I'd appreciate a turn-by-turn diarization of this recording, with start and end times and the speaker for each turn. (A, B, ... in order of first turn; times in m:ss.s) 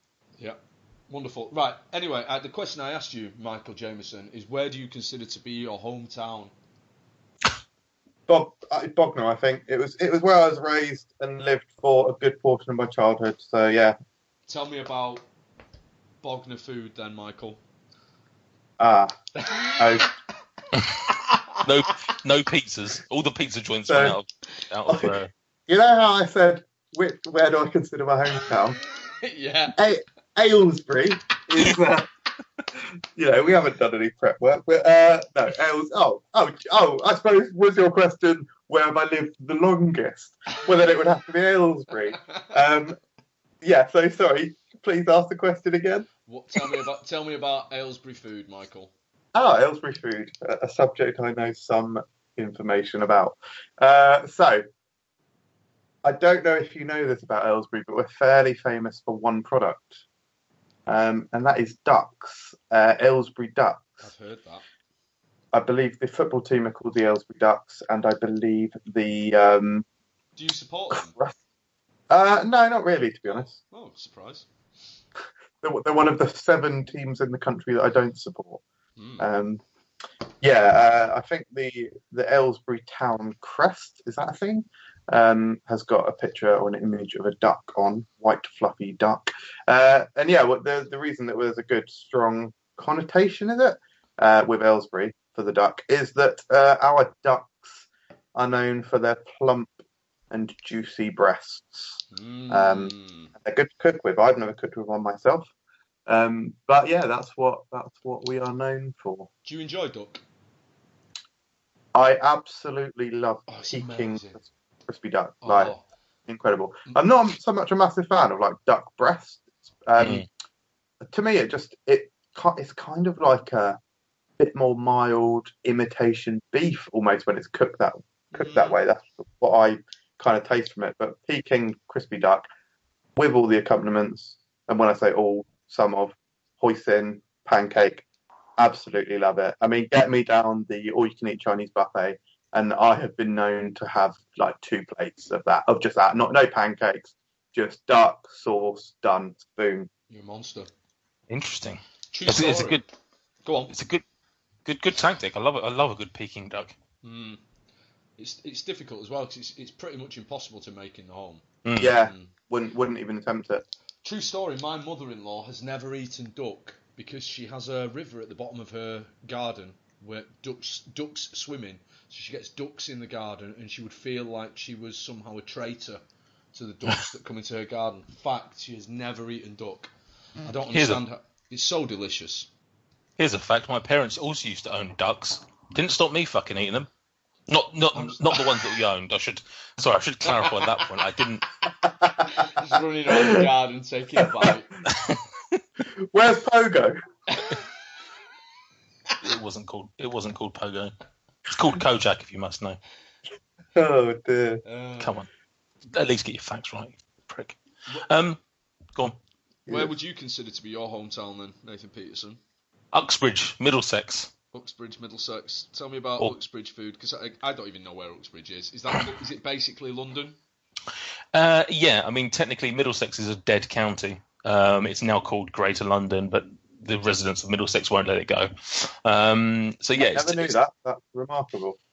0:00.4-0:06.5 A
0:08.3-0:14.0 B
0:14.5-0:15.3 A
0:16.2-0:17.6 A
0:18.8-0:19.1 B
0:19.4-0:20.1 A
0:19.8-0:20.1 B
0:21.1-0:21.6 A
0:21.6-0:25.3 C
0:23.9-0:24.2 B
0:24.9-0:25.2 B
0:25.7-0:28.8 B
0:29.2-0:29.9 A
0:29.8-0:32.1 B
0:33.1-0:43.0 B
0:43.6-0:46.1 B
0:46.3-0:48.9 A
0:49.3-0:54.6 B
0:56.0-1:00.0 B
1:00.9-1:04.0 B
1:04.0-1:04.6 A
1:05.5-1:09.8 B
1:10.4-1:11.2 A
1:10.9-1:11.4 B
1:12.1-1:13.5 B
1:13.3-1:14.5 A
1:15.6-1:18.6 B
1:19.0-1:19.3 A
1:19.2-1:19.6 B
1:20.4-1:39.7 B
1:40.3-1:45.5 B
1:42.1-1:43.3 A
1:46.1-1:49.3 B
1:49.4-1:50.2 A
1:51.9-1:55.7 B
1:53.5-1:54.4 A
1:55.4-1:55.8 A
1:56.3-2:00.3 B
2:00.0-2:00.2 C
2:01.0-2:03.8 B
2:04.4-2:12.5 B
2:08.3-2:08.8 A
2:13.2-2:18.0 B
2:18.6-2:29.9 B
2:30.1-2:30.7 A
2:31.3-2:32.8 C
2:32.1-2:32.8 A
2:33.4-2:33.7 A
2:33.7-2:34.0 C
2:34.6-2:36.7 C
2:37.0-2:37.4 A
2:38.2-2:42.3 A
2:41.6-2:42.0 C
2:41.8-2:43.6 B
2:44.0-2:56.0 A
2:56.5-2:59.9 A
3:00.4-3:02.5 A
3:00.7-3:01.0 C
3:03.2-3:06.9 C
3:07.5-3:11.5 C
3:08.0-3:08.6 A
3:10.3-3:10.9 A
3:11.9-3:12.4 B
3:12.2-3:14.7 A
3:13.1-3:13.5 B
3:14.2-3:14.5 B
3:14.9-3:15.6 C
3:16.0-3:17.0 B
3:17.3-3:17.6 A
3:19.2-3:22.8 C
3:23.8-3:24.6 B
3:24.6-3:25.2 A
3:25.0-3:25.3 C
3:25.9-3:28.4 C
3:29.7-3:29.9 B
3:29.7-3:32.4 A
3:32.9-3:34.3 C
3:34.5-3:40.4 A
3:41.3-3:50.6 C
3:50.0-3:51.8 B